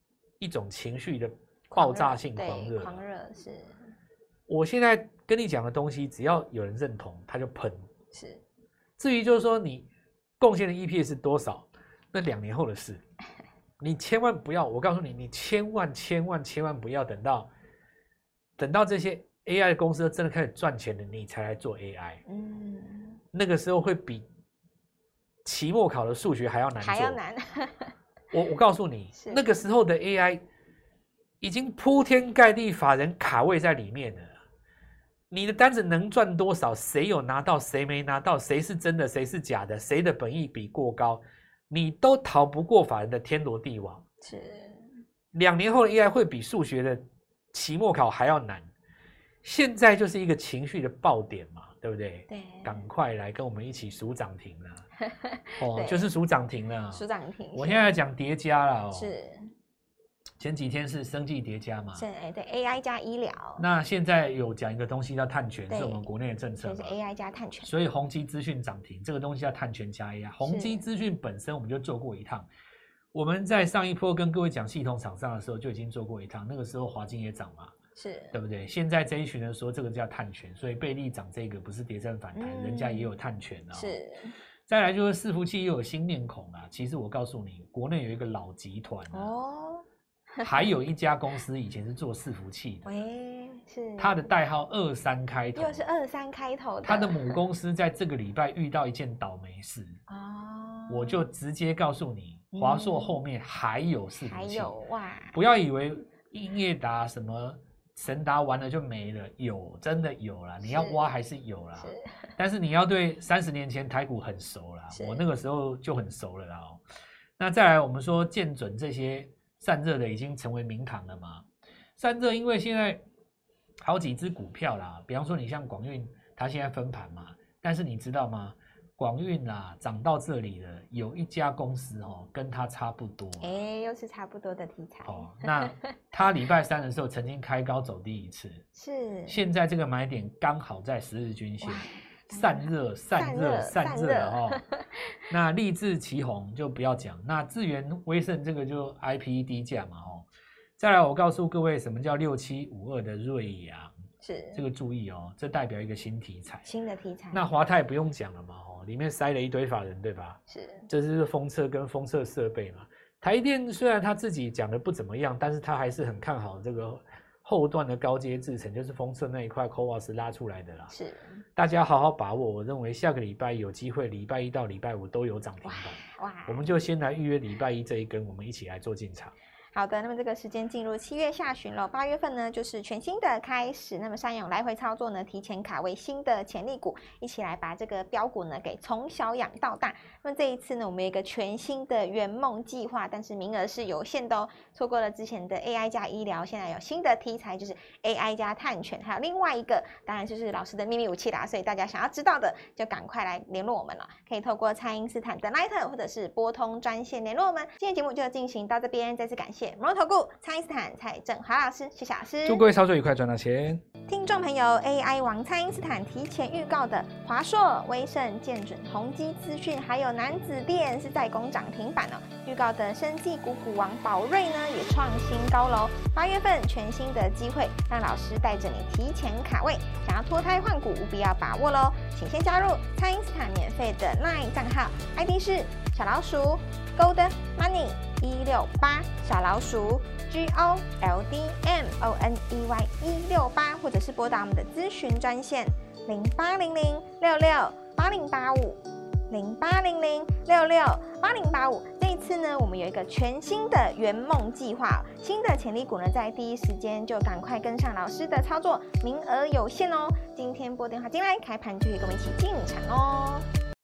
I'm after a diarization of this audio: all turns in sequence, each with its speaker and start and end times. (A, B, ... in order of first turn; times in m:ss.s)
0:00.4-0:03.0 A
0:01.7-0:03.9 B
0:04.5-0:07.9 A
0:08.1-0:08.4 B
0:09.0-0:09.9 A
0:10.4-0:13.0 A
0:13.8-0:17.5 A
0:18.6-0:22.2 A
0:22.3-0:23.2 B
0:23.3-0:24.2 A
0:25.4-0:27.2 A
0:26.8-0:27.9 B
0:28.3-0:30.4 A
0:29.1-0:29.4 B
0:31.4-0:34.3 A
0:35.3-0:44.0 A
0:44.2-0:44.9 B
0:45.3-0:48.7 A
0:49.4-0:54.8 A
0:52.3-0:52.8 B
0:55.0-0:56.1 B
0:55.6-0:59.1 A
0:56.9-0:57.9 B
0:58.9-0:59.5 B
1:00.4-1:02.0 A
1:02.0-1:03.6 B
1:03.6-1:07.0 A
1:05.7-1:06.1 B
1:06.6-1:07.7 B
1:07.6-1:12.5 A
1:10.4-1:10.8 B
1:13.1-1:17.7 A
1:18.0-1:18.4 B
1:18.3-1:24.0 A
1:22.3-1:23.1 B
1:23.7-1:24.3 B
1:24.7-1:29.3 A
1:29.1-1:30.8 B
1:30.4-1:33.0 A
1:32.8-1:34.3 B
1:34.0-1:35.8 A
1:35.6-1:37.4 B
1:36.8-1:40.0 A
1:40.1-1:41.3 B
1:40.9-1:44.7 A
1:42.5-1:43.2 B
1:44.2-1:45.4 B
1:45.3-1:56.8 A
1:50.6-1:51.1 B
1:51.8-1:52.3 B
1:54.9-1:55.2 B
1:57.4-2:01.4 A
2:02.0-2:03.0 A
2:03.8-2:13.6 A
2:13.4-2:15.8 B
2:15.0-2:18.6 A
2:18.7-2:19.4 B
2:19.3-2:24.6 A
2:21.6-2:24.8 B
2:25.3-2:30.2 A
2:30.8-2:33.9 A
2:34.2-2:34.6 B
2:34.5-2:36.7 A
2:36.6-2:37.4 B
2:37.3-2:50.9 A
2:40.5-2:40.9 B
2:50.9-2:51.4 B
2:51.6-2:59.3 A
2:55.6-2:56.6 B
2:59.7-3:32.6 B
3:32.4-3:33.8 A
3:34.1-4:23.4 B